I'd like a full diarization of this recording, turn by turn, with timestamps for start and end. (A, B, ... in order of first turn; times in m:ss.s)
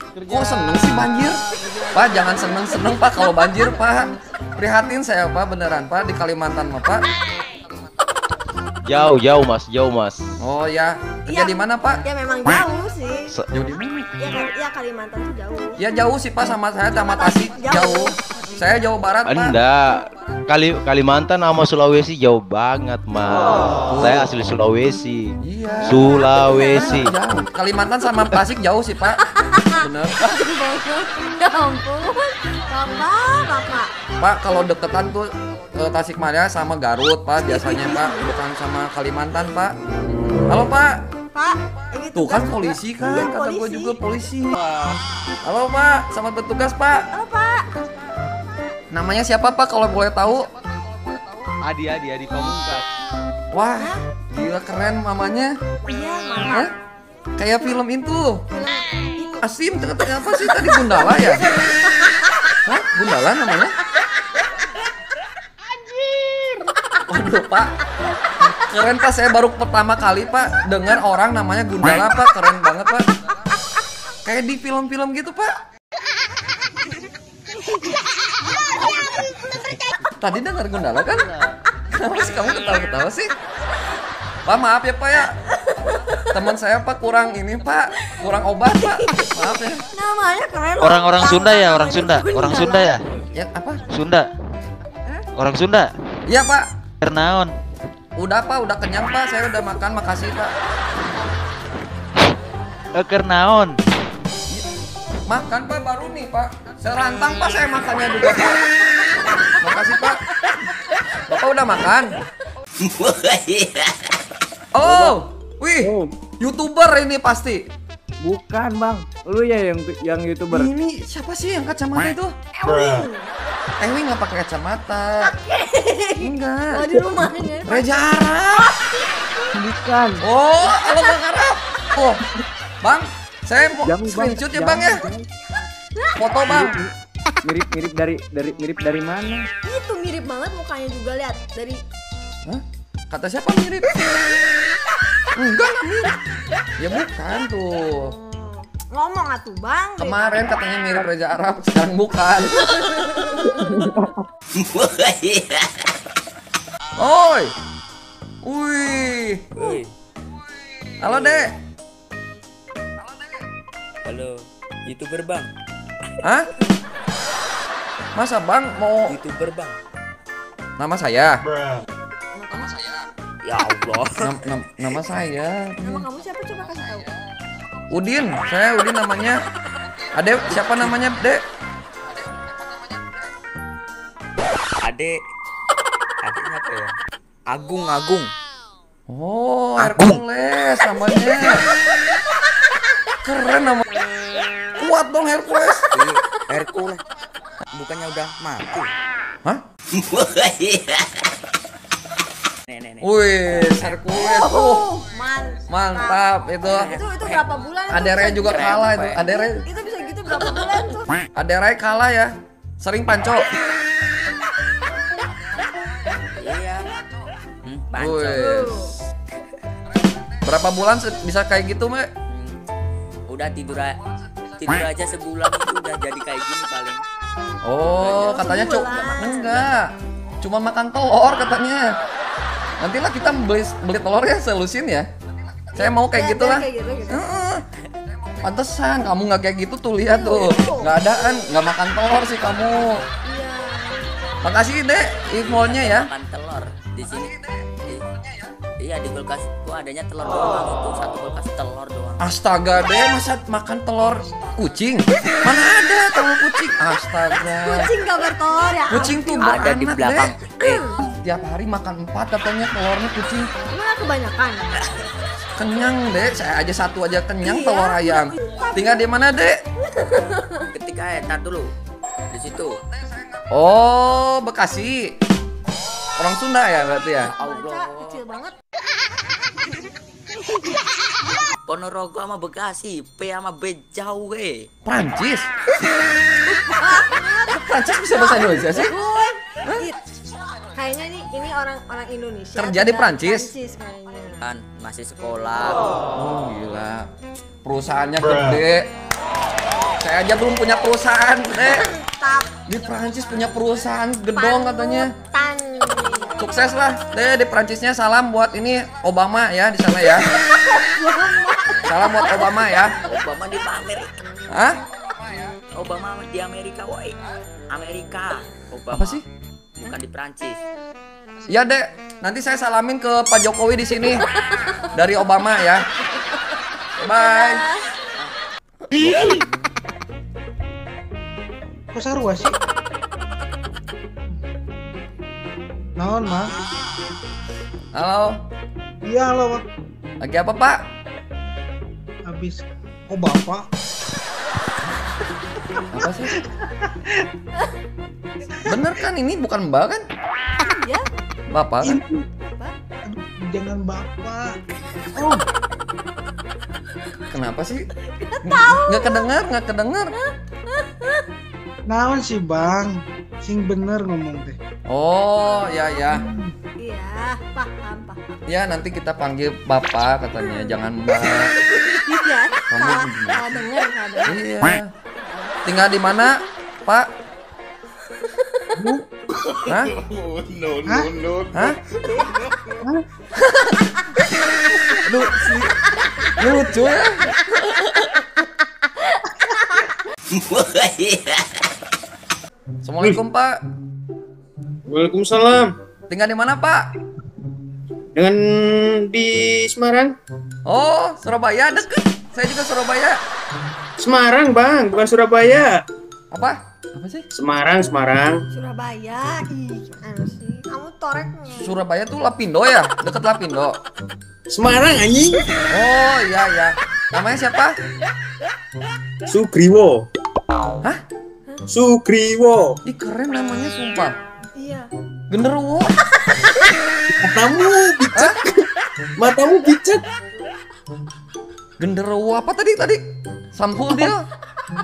0:00.2-0:07.0 A
0:08.8-0:10.3 B
0:10.4-0:12.0 A
0:11.3-0:13.3 C
0:13.5-0:14.1 A
0:14.2-0:15.8 C
0:15.8-0:19.6 A
0:16.9-0:18.6 C
0:19.2-0:27.1 B
0:23.9-0:24.3 A
0:25.4-0:29.2 A
0:29.3-0:33.9 C
0:29.8-0:30.4 A
0:34.2-0:39.8 A
0:37.4-0:38.3 C
0:40.4-0:41.0 A
0:41.3-0:44.0 C
0:42.1-0:44.6 A
0:45.4-0:47.1 A
0:47.1-0:48.8 C
0:48.9-0:50.5 A
0:51.6-0:52.8 B
0:53.5-0:55.5 A
0:55.8-0:56.7 C
0:57.4-0:58.4 A
0:58.5-0:59.4 C
0:59.4-1:01.5 A
1:00.5-1:02.3 C
1:02.6-1:03.7 A
1:05.8-1:06.7 C
1:07.1-1:07.7 A
1:08.6-1:13.1 A
1:14.2-1:15.6 A
1:20.2-1:21.3 A
1:21.9-1:23.3 A
1:24.4-1:25.4 A
1:25.8-1:26.2 C
1:26.3-1:29.8 A
1:28.9-1:33.0 C
1:30.8-1:32.9 D
1:33.3-1:33.8 A
1:33.9-1:34.2 D
1:35.4-1:35.9 D
1:36.2-1:36.7 A
1:37.0-1:37.5 D
1:38.2-1:40.5 A
1:43.0-1:43.8 D
1:45.3-1:48.6 A
1:49.6-1:50.2 A
1:51.3-1:52.1 A
1:53.0-1:53.8 E
1:54.7-1:57.7 A
1:58.2-2:00.7 F
2:00.5-2:02.3 A
2:02.6-2:03.3 C
2:03.8-2:05.3 A
2:05.4-2:07.9 C
2:06.2-2:06.9 A
2:07.7-2:08.7 A
2:09.5-2:10.2 F
2:10.2-2:12.2 A
2:10.7-2:10.9 C
2:12.8-2:15.0 A
2:13.8-2:15.2 F
2:16.2-2:16.8 A
2:17.4-2:19.5 F
2:19.6-2:21.8 C
2:22.4-2:24.1 A
2:25.4-2:26.1 A
2:26.8-2:28.1 A
2:28.0-2:30.4 C
2:30.0-2:33.2 A
2:34.6-2:35.5 E
2:37.0-2:37.5 A
2:38.4-2:39.5 A
2:39.5-2:39.9 E
2:41.0-2:41.5 A
2:41.1-2:41.5 E
2:44.0-2:44.3 E
2:44.8-2:45.5 E
2:46.2-2:46.5 A
2:48.1-2:49.2 A
2:49.1-2:49.8 E
2:50.8-2:51.4 A
2:52.3-2:52.8 C
2:53.4-2:54.1 E
2:54.2-2:56.1 A
2:55.8-2:57.1 C
2:57.9-2:59.4 A
3:00.1-3:01.4 A
3:00.5-3:00.9 E
3:04.8-3:05.2 E
3:06.2-3:06.9 E
3:07.5-3:08.3 E
3:09.1-3:11.6 A
3:09.8-3:10.2 E
3:13.2-3:13.9 A
3:14.8-3:15.9 A
3:15.9-3:17.0 E
3:17.7-3:18.9 E
3:20.1-3:21.0 E
3:22.7-3:23.9 E
3:23.0-3:24.9 A
3:24.1-3:26.2 C
3:25.7-3:26.9 A
3:26.7-3:27.4 E
3:26.8-3:31.1 C
3:27.9-3:29.6 A
3:28.5-3:29.2 E
3:31.3-3:33.5 A
3:36.4-3:36.8 E
3:37.6-3:38.4 E
3:38.0-3:38.7 A
3:38.4-3:39.0 C
3:40.4-3:42.1 A
3:43.3-3:43.9 E
3:44.6-3:47.0 E
3:47.6-3:49.9 A
3:48.0-3:49.7 E
3:48.2-3:49.5 C
3:50.4-3:51.8 A
3:52.8-3:55.1 A
3:55.7-3:57.6 A
3:55.8-3:57.2 C
3:58.4-4:03.0 A
4:00.1-4:01.0 C
4:03.2-4:04.1 C
4:04.4-4:06.1 A
4:05.5-4:08.0 E
4:08.8-4:12.2 E
4:12.2-4:17.9 A
4:17.6-4:19.4 C
4:18.9-4:20.3 A
4:19.3-4:20.8 E
4:20.6-4:21.0 C
4:21.2-4:23.5 A
4:23.7-4:24.7 C
4:25.6-4:29.6 A
4:27.4-4:29.1 C
4:29.9-4:30.7 C
4:30.7-4:31.7 E
4:32.3-4:32.7 E
4:33.5-4:35.2 A
4:36.2-4:37.3 A
4:37.3-4:38.5 C
4:37.4-4:38.1 E
4:41.7-4:44.5 E
4:44.8-4:45.5 A
4:46.5-4:50.0 C
4:47.5-4:48.9 A
4:50.7-4:54.4 C
4:52.6-4:53.5 A
4:54.4-4:55.8 E
4:56.1-4:57.1 A
4:57.6-4:58.8 A
5:00.0-5:01.9 A
5:01.6-5:02.5 C
5:02.7-5:05.1 A
5:04.3-5:06.4 C
5:06.4-5:10.3 A
5:10.3-5:12.8 C
5:11.8-5:13.0 A
5:13.0-5:14.1 E
5:14.5-5:14.8 A
5:15.7-5:17.2 E
5:17.7-5:19.2 E
5:18.9-5:19.2 A
5:19.8-5:20.6 E
5:21.5-5:24.2 A
5:24.9-5:25.8 A
5:27.0-5:27.7 A
5:27.1-5:27.6 C
5:28.9-5:29.5 E
5:31.9-5:32.6 G
5:36.0-5:36.5 G
5:37.9-5:38.4 A
5:39.0-5:39.6 G
5:40.2-5:40.8 A
5:42.2-5:43.6 G
5:45.9-5:46.4 A
5:48.7-5:50.0 A
5:50.6-5:51.0 C
5:51.5-5:52.0 A
5:51.8-5:52.2 G
5:52.5-5:52.7 C
5:53.0-5:54.6 G
5:55.2-5:55.4 G
5:57.3-5:57.8 A
5:58.2-5:59.3 C
5:58.4-6:00.1 A
6:00.8-6:01.2 C
6:01.9-6:04.6 G
6:04.9-6:06.2 A
6:06.2-6:06.5 G
6:06.8-6:08.4 C
6:08.5-6:11.5 A
6:11.6-6:14.5 C
6:12.7-6:13.5 A
6:14.2-6:14.9 A
6:15.2-6:15.6 C
6:15.6-6:16.3 A
6:19.7-6:20.0 A
6:20.8-6:21.2 G
6:21.5-6:21.8 A
6:23.4-6:23.8 A
6:25.0-6:25.8 A
6:26.4-6:28.2 A
6:29.4-6:29.9 C
6:30.5-6:31.3 E
6:32.8-6:33.6 A
6:34.9-6:35.7 H
6:36.1-6:36.8 A
6:38.1-6:40.1 H
6:40.7-6:43.2 A
6:44.0-6:45.8 H
6:46.3-6:47.2 A
6:47.3-6:48.4 H
6:48.5-6:51.7 C
6:51.6-6:53.8 A
6:54.5-6:55.5 H
6:55.7-6:57.8 A
6:59.3-7:00.1 H
7:01.7-7:02.8 H
7:02.8-7:04.1 A
7:04.6-7:04.9 C
7:05.3-7:06.0 A
7:07.2-7:08.3 H
7:09.2-7:10.0 H
7:11.8-7:13.0 A
7:13.6-7:14.2 A